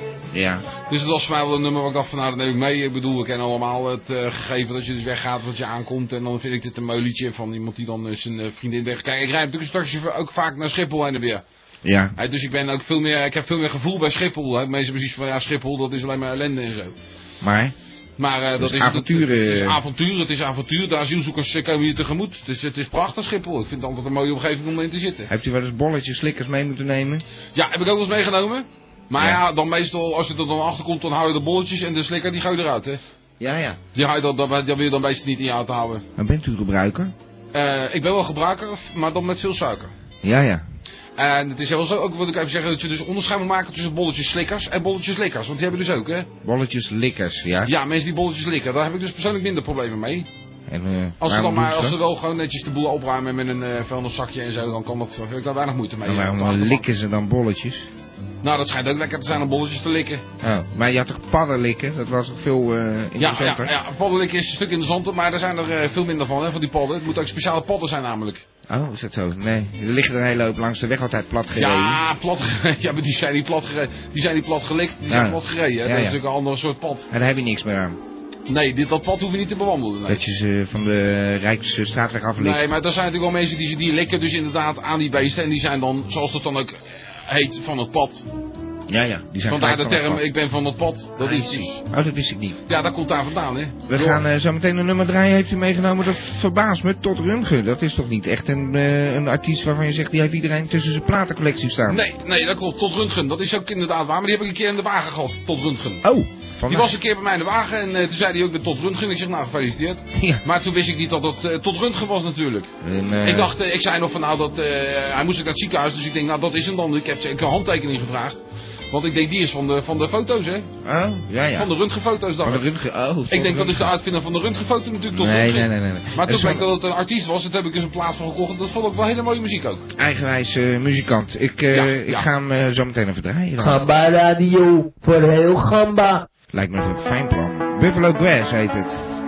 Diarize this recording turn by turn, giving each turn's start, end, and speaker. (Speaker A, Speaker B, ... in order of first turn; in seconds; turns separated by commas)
Speaker A: 0.3-0.7, Speaker B: 0.9-11.4, Speaker A: 11.8-12.1, Speaker B: 12.2-16.9, Speaker A: 17.4-17.8, Speaker B: 18.2-25.3, Speaker A: 18.6-19.8, Speaker A: 25.3-27.2, Speaker B: 27.6-33.0, Speaker A: 33.4-33.8, Speaker B: 34.0-36.0, Speaker A: 36.2-37.1, Speaker B: 37.5-39.9, Speaker A: 40.2-40.6, Speaker B: 41.2-46.3, Speaker A: 46.4-47.7, Speaker B: 47.7-50.3, Speaker A: 50.7-52.0, Speaker B: 51.2-56.8, Speaker A: 56.0-57.9, Speaker B: 58.4-60.2, Speaker A: 60.4-63.7, Speaker B: 63.2-68.5, Speaker A: 68.7-72.0, Speaker B: 71.6-77.1, Speaker A: 75.1-76.2, Speaker A: 77.1-78.0, Speaker B: 78.5-80.2, Speaker A: 80.1-82.7, Speaker B: 82.4-88.2, Speaker A: 88.9-90.3, Speaker B: 89.5-91.8, Speaker A: 91.2-92.6, Speaker B: 92.7-94.2, Speaker A: 93.9-102.0, Speaker B: 101.9-106.0, Speaker A: 106.0-106.9, Speaker B: 106.7-112.7, Speaker A: 110.2-110.4, Speaker A: 112.8-113.5, Speaker B: 113.2-118.4, Speaker B: 118.9-120.7, Speaker A: 120.8-121.7, Speaker B: 121.5-122.6, Speaker A: 122.4-123.9, Speaker B: 123.3-129.9, Speaker A: 125.1-126.7, Speaker A: 130.0-133.9, Speaker B: 131.7-132.3, Speaker C: 133.6-136.3, Speaker A: 136.5-139.0